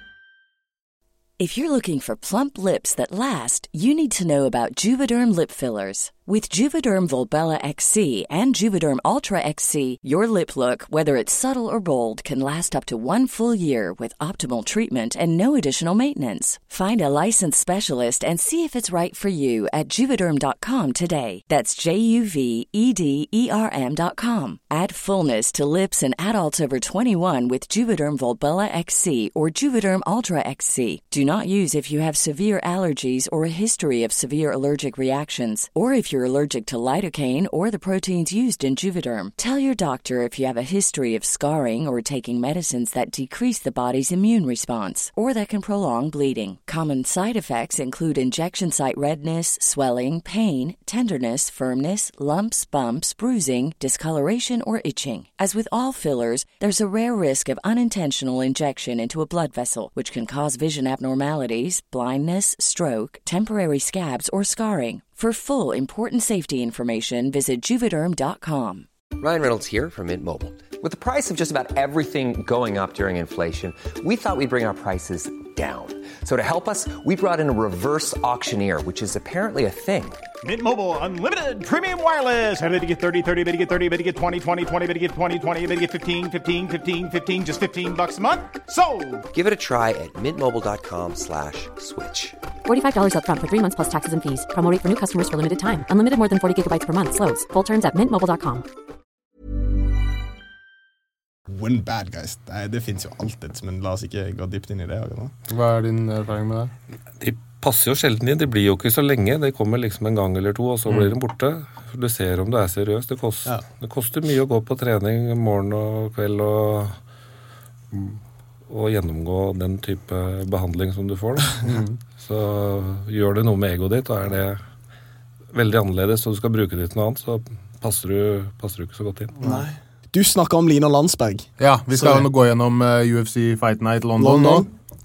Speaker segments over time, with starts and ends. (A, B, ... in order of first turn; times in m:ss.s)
0:01.4-1:08.9 A
1:09.2-1:20.2 B
1:20.4-1:29.3 C
1:29.3-1:32.4 B
1:32.7-1:38.7 D
1:41.5-1:45.3 E
1:45.5-1:46.7 F
1:47.2-1:57.0 G
1:50.9-1:51.1 F
1:57.9-1:58.2 F
1:58.7-2:01.7 G
2:01.6-2:02.0 F
2:02.2-2:04.6 G
2:05.5-2:09.4 G
2:09.4-2:09.7 F
2:09.4-2:12.3 E
2:11.6-2:14.7 F
2:14.2-2:14.7 E